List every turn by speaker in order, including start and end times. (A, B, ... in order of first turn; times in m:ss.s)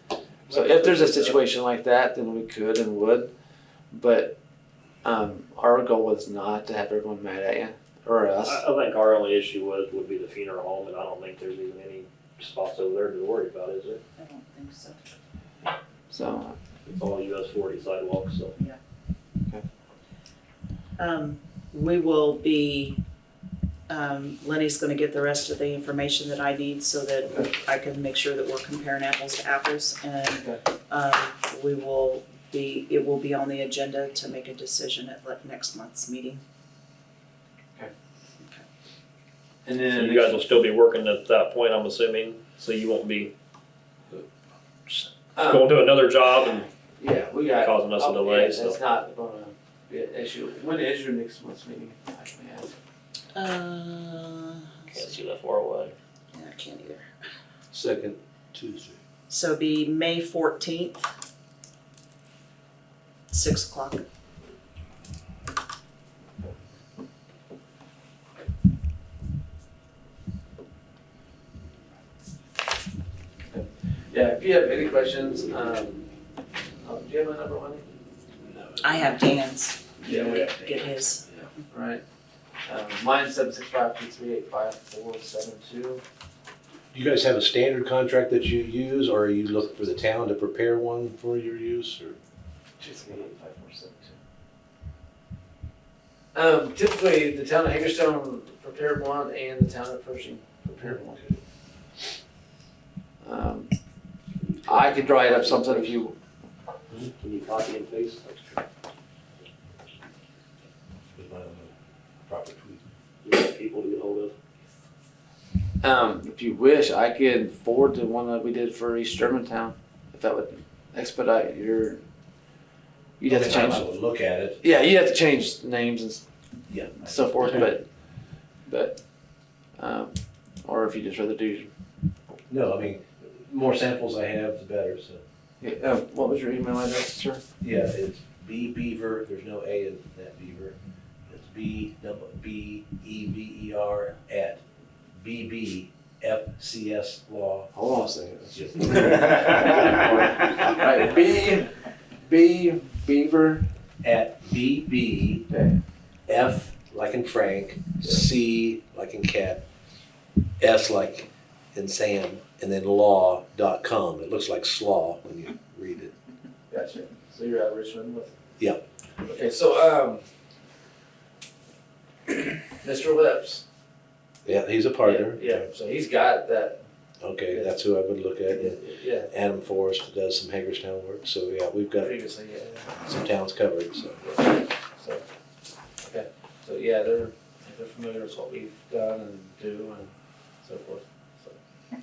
0:00.5-0:01.3 A
0:00.5-0:03.3 B
0:03.9-0:04.3 B
0:05.0-0:08.6 B
0:08.4-0:14.0 A
0:14.2-0:15.0 C
0:16.1-0:16.6 B
0:16.9-0:18.5 A
0:21.0-0:23.0 C
0:23.9-0:36.4 C
0:39.6-0:40.6 B
0:39.9-0:43.3 A
0:44.9-0:46.7 A
0:45.4-0:45.8 B
0:47.0-0:52.7 B
0:47.6-0:48.8 A
0:53.3-0:55.0 C
0:54.9-0:55.9 A
0:56.3-0:57.1 C
0:57.7-0:59.0 D
0:59.3-1:01.0 C
1:03.3-1:04.0 C
1:13.5-1:16.0 B
1:16.8-1:17.8 B
1:18.5-1:18.8 D
1:18.8-1:21.2 C
1:20.0-1:20.5 B
1:20.0-1:20.6 A
1:21.7-1:22.0 B
1:22.6-1:26.0 B
1:26.9-1:32.2 D
1:32.8-1:34.2 B
1:36.3-1:41.2 B
1:43.2-1:43.7 B
1:44.4-1:46.0 A
1:44.6-1:46.1 B
1:47.2-1:48.6 A
1:51.1-1:51.7 D
1:52.2-1:52.8 D
1:53.2-1:54.3 A
1:55.8-2:02.0 B
2:03.2-2:03.8 B
2:03.3-2:04.8 D
2:04.6-2:06.2 B
2:06.7-2:07.5 D
2:07.0-2:07.8 B
2:08.7-2:09.0 B
2:09.8-2:11.7 B
2:12.5-2:15.2 D
2:15.6-2:17.4 B
2:17.6-2:20.7 D
2:21.3-2:24.6 D
2:25.1-2:27.8 D
2:27.7-2:31.7 B
2:28.5-2:29.4 D
2:32.2-2:33.6 B
2:34.0-2:35.5 D
2:35.5-2:35.8 B
2:36.3-2:39.6 D
2:40.6-2:46.1 D
2:46.7-2:48.3 B
2:49.2-2:50.2 B
2:52.8-2:53.6 B
2:54.4-2:55.6 D
2:55.0-2:56.8 B
2:57.2-3:02.1 D
2:57.5-2:57.8 B
2:58.5-2:59.3 B
3:02.0-3:02.9 B
3:03.0-3:04.2 D
3:04.2-3:05.2 B
3:06.0-3:10.1 B
3:10.6-3:11.6 B